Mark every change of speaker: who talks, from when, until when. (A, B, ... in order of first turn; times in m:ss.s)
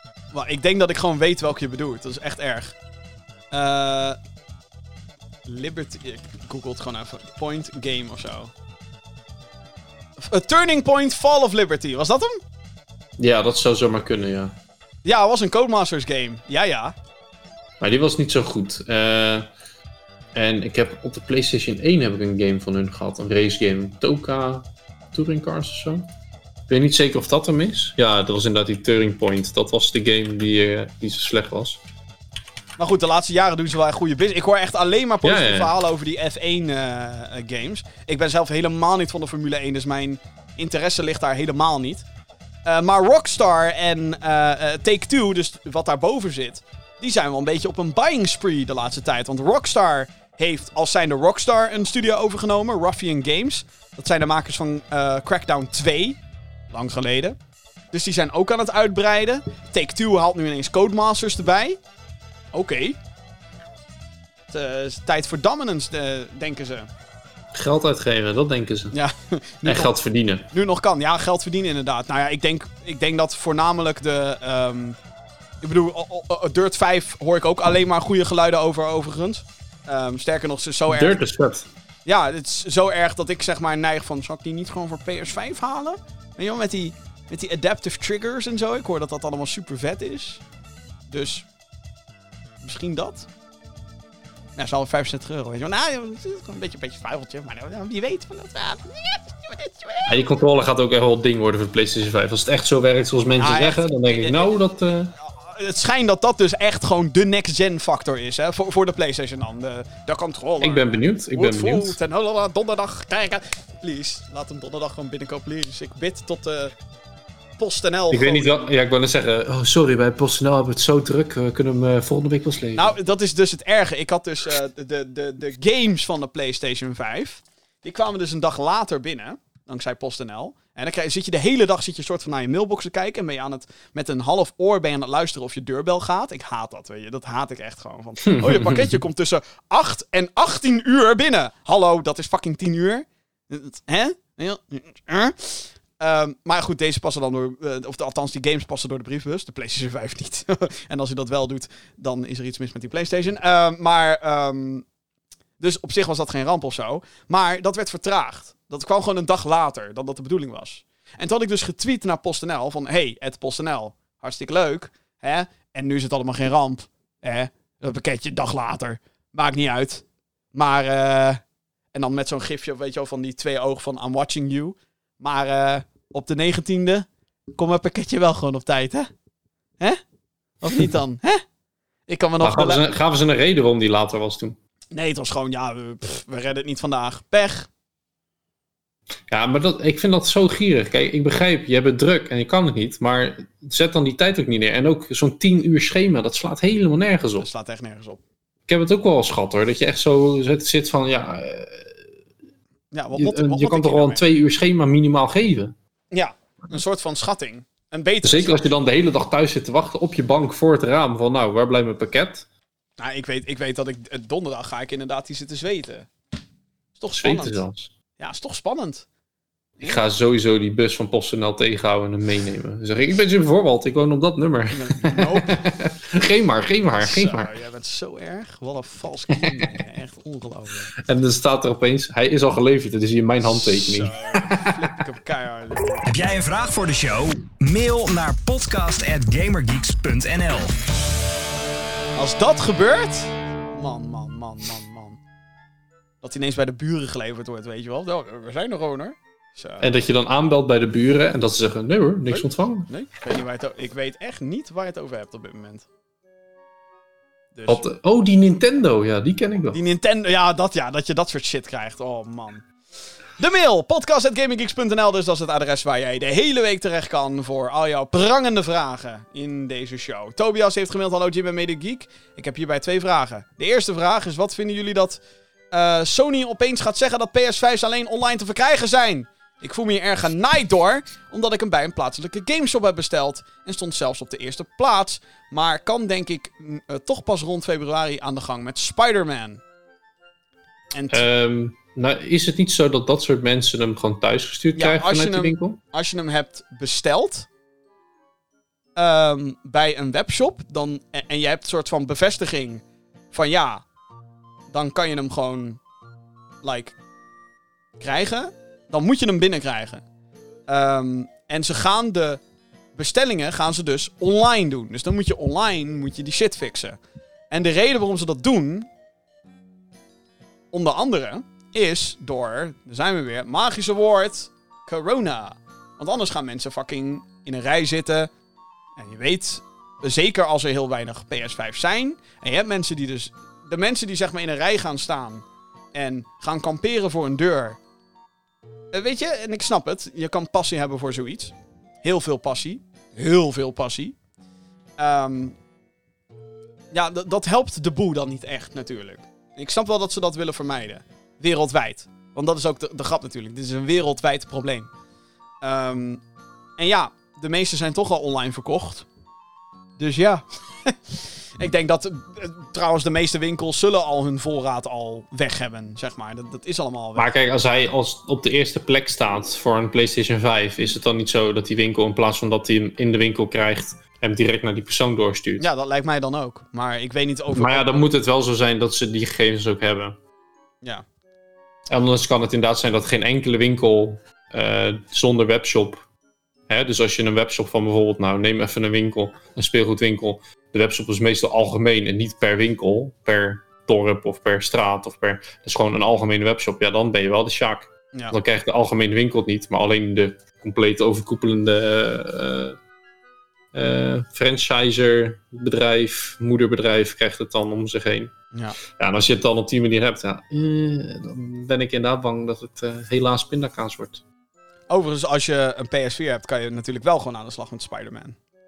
0:00.3-0:02.7 A
0:03.5-0:04.2 A
0:05.5-0:08.5 A
0:10.2-0:12.4 A
0:13.2-0:14.5 B
0:15.0-0:16.9 A
0:17.8-0:19.5 B
0:20.3-0:26.1 B
0:26.7-0:31.8 B
0:32.8-0:42.0 A
0:35.2-0:35.7 B
0:42.6-0:56.2 A
0:56.7-0:57.4 A
0:57.9-1:01.8 A
1:02.5-1:03.0 A
1:04.5-1:06.9 A
1:07.5-1:08.9 B
1:08.9-1:09.9 A
1:09.6-1:10.4 B
1:10.5-1:15.0 A
1:15.6-1:21.2 A
1:20.9-1:21.7 B
1:22.0-1:30.4 A
1:31.1-1:31.4 A
1:32.6-1:33.3 A
1:34.6-1:40.2 A
1:40.1-1:45.1 B
1:43.4-1:44.5 A
1:45.2-1:56.7 A
1:50.6-1:52.0 B
1:57.6-1:58.7 A
1:58.1-2:03.0 B
2:02.8-2:34.8 A
2:18.2-2:19.0 B
2:35.6-2:51.4 A
2:51.9-2:59.1 A
3:00.6-3:01.4 A
3:02.1-3:02.8 A
3:02.4-3:04.6 B
3:04.9-3:07.7 A
3:09.3-3:17.5 B
3:17.4-3:18.2 A
3:18.7-3:22.0 B
3:22.9-3:24.2 A
3:23.1-3:25.7 B
3:26.1-3:28.8 A
3:28.2-3:32.4 B
3:33.0-3:36.1 A
3:37.0-3:37.6 A
3:37.2-3:37.9 B
3:38.2-3:39.0 A
3:39.8-3:47.5 B
3:44.7-3:45.6 A
3:47.0-3:50.9 A
3:51.0-3:54.7 B
3:53.4-3:55.9 A
3:56.0-4:00.8 C
4:02.2-4:05.2 A
4:06.2-4:09.9 A
4:09.8-4:12.9 B
4:12.3-4:15.9 A
4:17.5-4:17.8 A
4:17.7-4:19.8 B
4:19.7-4:22.6 A
4:23.4-4:35.2 A
4:35.7-4:49.6 A
4:50.9-4:51.2 A
4:51.1-4:55.8 B
4:54.8-4:57.5 A
4:59.0-5:03.8 A
5:04.7-5:05.8 A
5:06.6-5:07.0 A
5:08.0-5:10.0 A
5:10.7-5:12.4 A
5:12.9-5:18.9 A
5:20.7-5:28.3 A
5:29.0-5:37.8 A
5:38.9-5:44.2 A
5:45.0-5:45.6 A
5:46.9-5:54.9 A
5:55.6-5:56.2 A
5:56.8-5:59.0 A
6:00.0-6:07.3 A
6:07.2-6:15.7 B
6:15.6-6:17.9 A
6:17.5-6:20.2 B
6:21.9-6:26.1 B
6:26.7-6:42.8 B
6:43.7-6:48.3 B
6:48.5-6:48.8 A
6:48.9-6:54.2 B
6:54.9-6:58.4 A